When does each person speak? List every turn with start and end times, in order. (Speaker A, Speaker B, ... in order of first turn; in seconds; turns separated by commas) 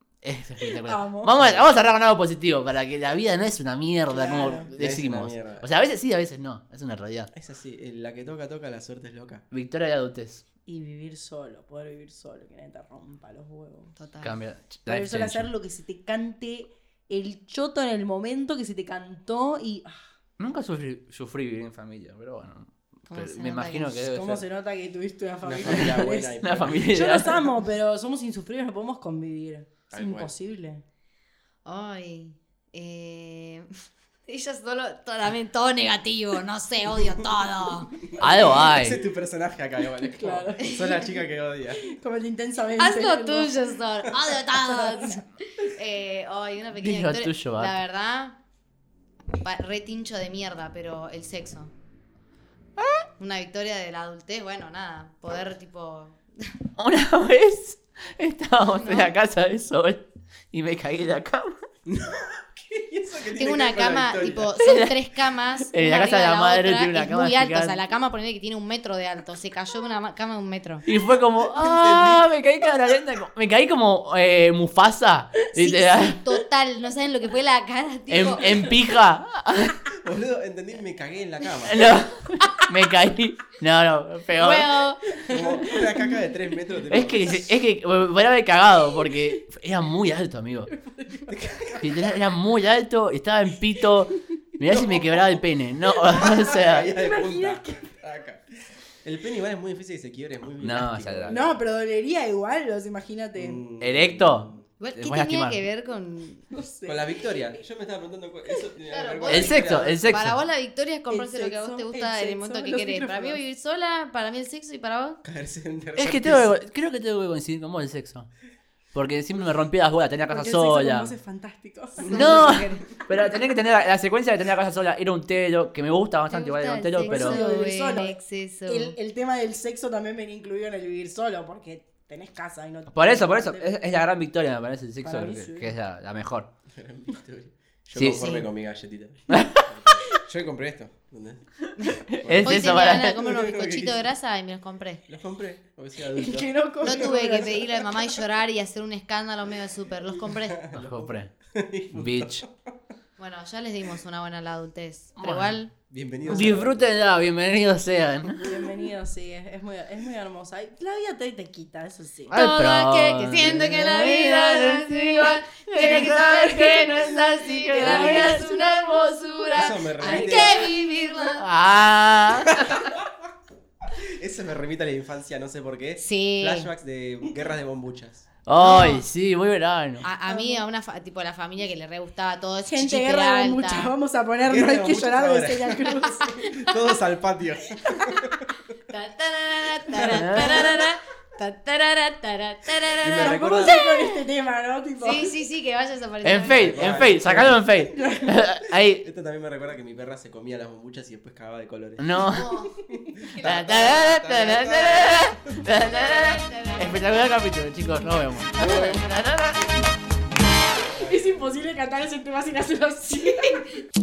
Speaker A: 0.2-7.3, Speaker B: 0.8-1.4, Speaker C: 1.4-1.8, Speaker B: 4.1-4.7, Speaker C: 4.8-5.7, Speaker C: 7.3-9.4, Speaker A: 9.5-10.4, Speaker B: 10.7-13.9, Speaker D: 13.9-14.4, Speaker A: 14.2-15.5, Speaker B: 14.9-20.0, Speaker A: 20.4-24.4, Speaker D: 23.1-23.9, Speaker B: 24.0-26.4, Speaker C: 25.4-27.0, Speaker A: 25.7-27.4, Speaker B: 26.9-30.8, Speaker C: 29.9-30.3, Speaker D: 31.6-33.7, Speaker D: 34.3-38.1, Speaker C: 38.1-41.8, Speaker A: 38.2-39.0, Speaker B: 40.1-40.9, Speaker B: 41.8-43.5, Speaker D: 42.8-48.4, Speaker B: 44.4-45.2, Speaker A: 46.8-47.8, Speaker D: 49.3-51.7, Speaker A: 52.8-53.0, Speaker D: 53.2-56.5, Speaker A: 56.8-61.5, Speaker D: 58.7-59.2, Speaker C: 61.9-64.5, Speaker D: 63.3-70.8, Speaker A: 64.6-65.0, Speaker A: 65.7-67.8, Speaker A: 70.9-76.2, Speaker C: 71.5-72.3, Speaker D: 75.5-78.7, Speaker A: 78.1-79.8, Speaker C: 80.0-81.9, Speaker A: 81.7-84.9, Speaker D: 84.3-85.0, Speaker B: 85.3-85.8, Speaker C: 85.3-87.5, Speaker A: 86.9-90.7, Speaker B: 90.8-91.3, Speaker C: 91.3-91.9, Speaker A: 91.8-96.9, Speaker C: 96.1-98.4, Speaker B: 96.9-97.9, Speaker C: 99.0-101.5, Speaker A: 100.6-101.4, Speaker B: 101.3-103.6, Speaker C: 103.4-104.7, Speaker A: 103.8-105.6, Speaker D: 104.8-106.5, Speaker B: 106.5-107.2, Speaker C: 106.9-110.1, Speaker D: 108.9-115.2, Speaker A: 109.3-110.4, Speaker B: 111.1-113.4, Speaker C: 115.2-116.6, Speaker A: 116.0-118.3, Speaker A: 118.9-121.1, Speaker B: 120.3-122.6, Speaker D: 122.0-123.0, Speaker A: 122.1-127.5, Speaker D: 126.3-128.9, Speaker B: 127.0-133.7, Speaker A: 132.9-136.5, Speaker B: 135.0-135.7, Speaker C: 136.7-141.4, Speaker A: 137.9-138.3, Speaker D: 138.2-138.4, Speaker A: 139.3-139.7, Speaker D: 141.8-145.0, Speaker C: 142.1-144.1, Speaker A: 142.1-143.2, Speaker C: 145.1-147.7, Speaker B: 146.1-147.8, Speaker D: 146.8-150.7, Speaker C: 150.3-152.7, Speaker A: 150.7-151.3, Speaker A: 151.9-152.4, Speaker D: 153.2-155.7, Speaker A: 155.2-155.6, Speaker C: 155.9-156.9, Speaker A: 156.3-158.5, Speaker B: 158.4-162.3, Speaker A: 162.3-168.7, Speaker D: 162.3-171.4, Speaker B: 167.8-168.5, Speaker C: 169.5-170.8, Speaker A: 171.3-172.9, Speaker C: 172.6-173.1, Speaker C: 173.9-178.3, Speaker D: 176.0-176.7, Speaker A: 178.4-180.1, Speaker D: 178.6-179.0, Speaker D: 180.0-183.9, Speaker B: 180.3-180.6, Speaker B: 182.6-186.3, Speaker C: 184.4-188.5, Speaker D: 188.9-194.1, Speaker C: 189.9-190.9, Speaker A: 190.1-190.7, Speaker C: 193.0-193.7, Speaker B: 193.2-195.3, Speaker D: 195.0-196.9, Speaker A: 196.2-199.1, Speaker C: 196.5-197.9, Speaker B: 197.9-198.3, Speaker C: 198.6-202.3, Speaker A: 202.0-202.5, Speaker D: 202.3-203.9, Speaker C: 202.9-205.6, Speaker A: 203.4-209.8, Speaker D: 205.7-207.2, Speaker C: 208.6-209.0, Speaker B: 210.8-213.8